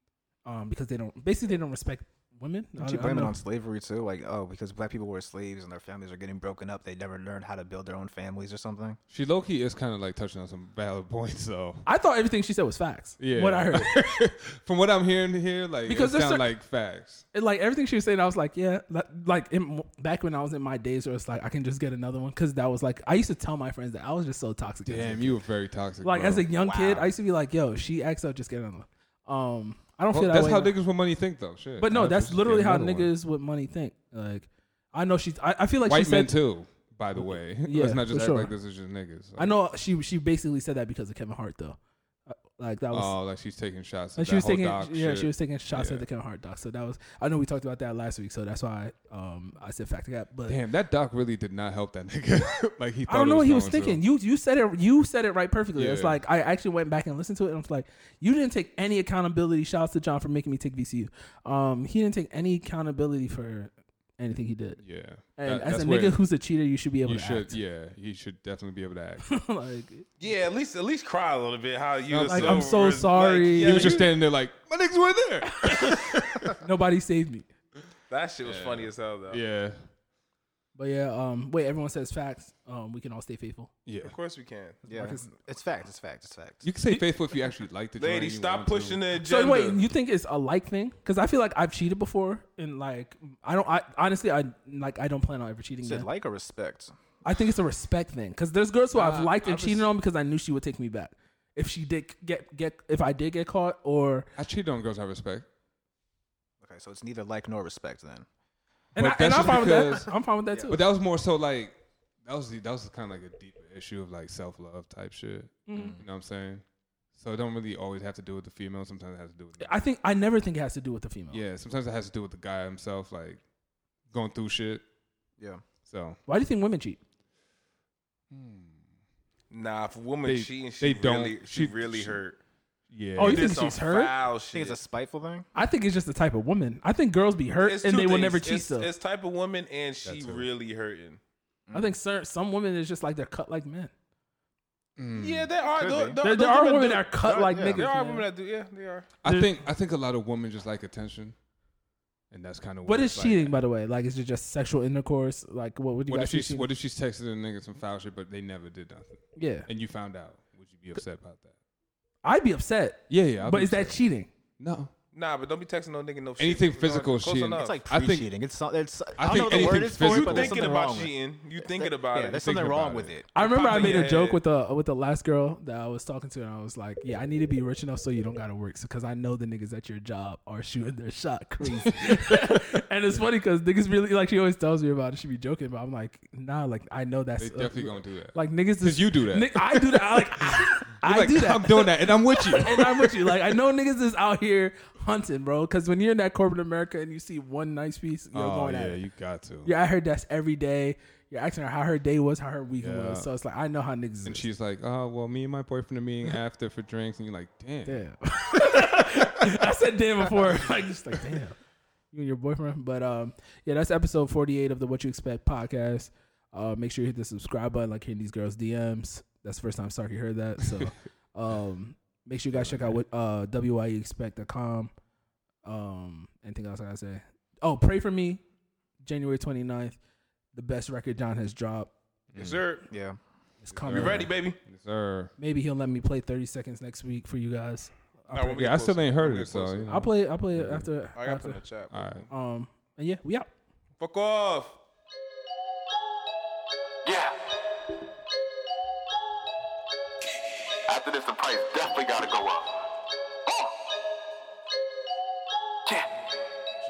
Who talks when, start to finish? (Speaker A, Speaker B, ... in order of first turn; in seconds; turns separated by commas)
Speaker A: 0.5-3.4, Speaker B: 2.8-9.0, Speaker C: 9.1-11.8, Speaker A: 11.9-13.9, Speaker C: 13.2-17.2, Speaker A: 15.9-16.5, Speaker A: 17.3-25.4, Speaker C: 24.9-27.1, Speaker A: 26.0-30.7, Speaker B: 26.6-27.0, Speaker C: 30.1-33.1, Speaker A: 31.8-36.4, Speaker C: 35.9-39.5, Speaker A: 37.1-38.5, Speaker A: 39.4-43.1, Speaker C: 42.9-46.0, Speaker A: 44.2-50.6, Speaker C: 50.5-54.0, Speaker A: 53.1-67.6, Speaker C: 55.8-56.2, Speaker C: 64.8-66.2, Speaker C: 67.0-69.3, Speaker A: 69.3-70.1, Speaker D: 70.2-74.2, Speaker C: 72.1-72.9, Speaker A: 72.2-73.9, Speaker C: 73.5-76.6, Speaker A: 75.6-76.0, Speaker A: 76.6-77.5, Speaker D: 78.1-79.4, Speaker C: 78.4-79.8, Speaker A: 80.8-83.7, Speaker C: 83.9-84.1, Speaker D: 84.0-84.8, Speaker B: 84.8-86.6, Speaker A: 84.9-85.3, Speaker C: 86.6-89.0, Speaker D: 88.0-89.8, Speaker A: 89.2-96.1, Speaker B: 95.8-96.9, Speaker A: 97.2-104.3, Speaker C: 98.9-99.9, Speaker C: 104.4-105.5, Speaker B: 106.6-108.3, Speaker A: 109.0-110.8, Speaker C: 109.0-110.1, Speaker B: 110.5-110.8, Speaker C: 110.7-116.6, Speaker A: 115.7-116.0, Speaker B: 115.7-116.0, Speaker C: 117.2-119.7, Speaker A: 119.6-121.4, Speaker C: 121.3-123.4, Speaker C: 124.1-124.8, Speaker B: 125.4-125.6, Speaker C: 125.9-126.2, Speaker A: 126.3-127.0, Speaker C: 128.3-128.7, Speaker D: 129.5-132.4, Speaker C: 130.2-132.2, Speaker C: 132.9-133.6, Speaker A: 133.2-134.1, Speaker D: 133.2-134.8, Speaker B: 134.5-135.5, Speaker A: 135.6-138.9, Speaker D: 137.6-141.2, Speaker C: 140.1-140.5, Speaker B: 141.7-141.9, Speaker A: 141.7-143.9, Speaker C: 145.0-145.5, Speaker D: 145.2-149.2, Speaker B: 145.7-146.2, Speaker A: 146.2-148.3, Speaker B: 147.2-147.9, Speaker C: 149.2-151.4, Speaker A: 149.2-149.5, Speaker C: 152.3-153.6, Speaker A: 152.8-156.7, Speaker C: 156.1-161.5, Speaker A: 159.4-159.7, Speaker A: 162.2-164.3, Speaker C: 163.1-164.0, Speaker C: 164.6-164.9, Speaker D: 165.1-167.8, Speaker C: 166.4-168.3, Speaker B: 167.6-173.3, Speaker C: 169.2-170.6, Speaker D: 169.2-172.5, Speaker C: 172.4-173.1, Speaker A: 173.3-199.0, Speaker D: 173.4-174.4, Speaker C: 182.1-182.4, Speaker C: 187.4-193.3, Speaker C: 198.3-199.7, Speaker A: 199.6-204.4, Speaker C: 202.8-203.3, Speaker C: 204.2-208.0, Speaker A: 207.8-211.6, Speaker A: 212.1-224.9, Speaker C: 222.5-223.0, Speaker A: 225.6-228.4, Speaker A: 229.0-230.0, Speaker A: 230.5-231.9, Speaker C: 232.3-232.6, Speaker D: 232.4-232.9, Speaker B: 232.9-233.2, Speaker A: 233.6-234.3, Speaker C: 233.8-235.3, Speaker D: 233.9-234.6, Speaker A: 235.4-238.5, Speaker D: 238.3-239.9, Speaker C: 238.5-240.9, Speaker A: 239.9-241.6, Speaker D: 241.2-241.9, Speaker C: 241.9-242.3, Speaker A: 242.3-243.5, Speaker D: 244.0-244.8, Speaker E: 247.1-247.4, Speaker E: 250.9-252.8, Speaker E: 255.9-256.1